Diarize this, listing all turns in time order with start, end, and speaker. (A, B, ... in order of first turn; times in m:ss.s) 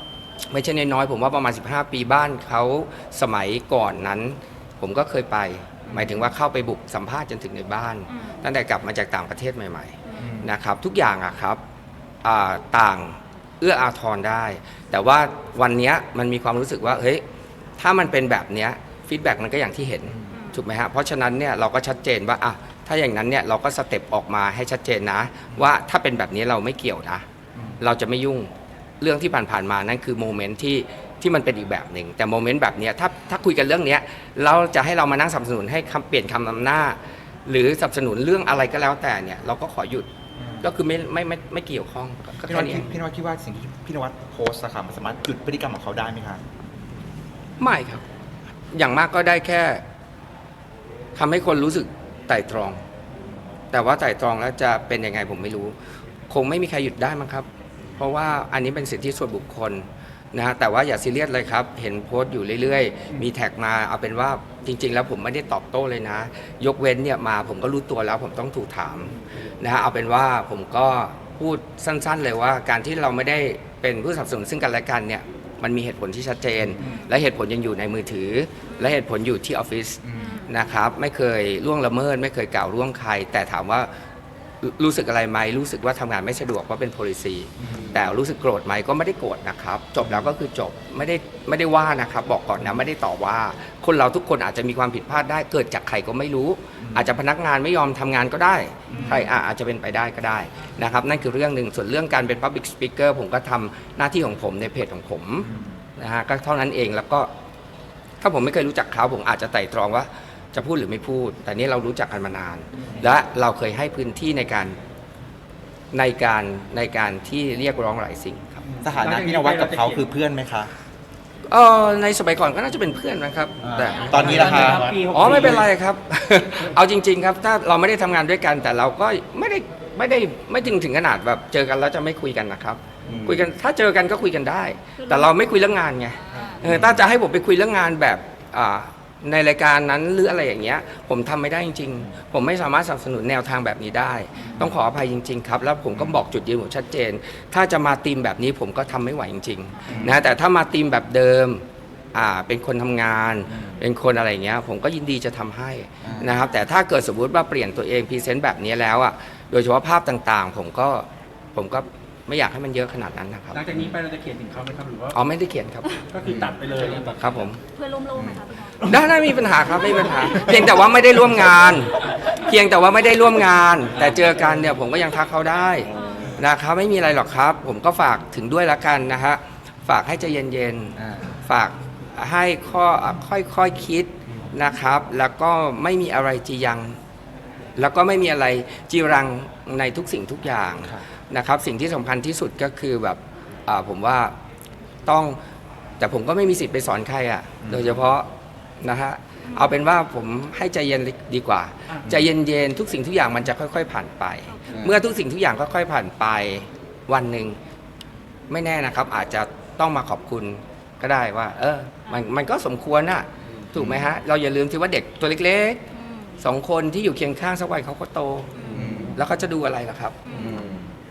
0:00.5-0:11.6 A
0:05.9-0:06.2 B
0:08.1-0:08.4 C
0:10.2-0:10.5 B
0:12.2-0:17.2 A
0:17.8-0:27.2 A
0:20.3-0:20.6 C
0:27.6-0:27.8 B
0:27.8-0:40.1 A
0:40.4-0:40.7 B
0:40.6-0:42.9 A
0:42.4-0:46.4 B
0:47.6-0:48.0 A
0:48.7-0:49.8 A
0:51.2-0:52.8 A
0:53.7-0:55.8 A
0:56.3-0:57.5 A
0:58.0-1:23.9 A
1:16.8-1:17.0 D
1:20.0-1:20.5 B
1:24.6-1:47.3 A
1:27.6-1:28.0 B
1:30.0-1:30.3 B
1:36.8-1:37.2 B
1:38.9-1:39.3 D
1:38.9-1:39.3 B
1:45.4-1:45.8 B
1:48.2-1:54.8 A
1:55.9-1:58.6 A
1:58.6-2:00.1 D
1:58.8-2:00.7 B
2:01.5-2:43.6 A
2:03.6-2:05.0 B
2:04.1-2:05.7 D
2:13.1-2:13.5 B
2:15.0-2:15.3 C
2:16.3-2:16.6 D
2:16.6-2:17.0 B
2:24.5-2:24.8 B
2:29.9-2:30.2 B
2:33.5-2:33.8 B
2:36.0-2:36.4 B
2:43.5-2:45.2 D
2:45.1-2:46.0 A
2:46.1-2:47.6 D
2:46.2-2:46.6 B
2:47.1-2:47.6 A
2:47.7-2:48.8 C
2:48.8-3:07.0 A
2:50.3-2:50.7 B
2:55.9-2:56.3 C
3:01.0-3:01.4 B
3:07.8-3:14.3 A
3:15.1-3:15.4 A
3:16.0-3:18.3 A
3:17.6-3:18.1 B
3:18.8-3:27.6 A
3:22.0-3:22.3 B
3:24.7-3:25.0 B
3:28.5-3:35.8 A
3:33.7-3:34.1 B
3:35.9-3:36.4 C
3:36.4-3:38.5 A
3:38.6-3:39.1 D
3:38.7-3:39.2 B
3:39.1-3:40.2 A
3:40.3-3:40.9 B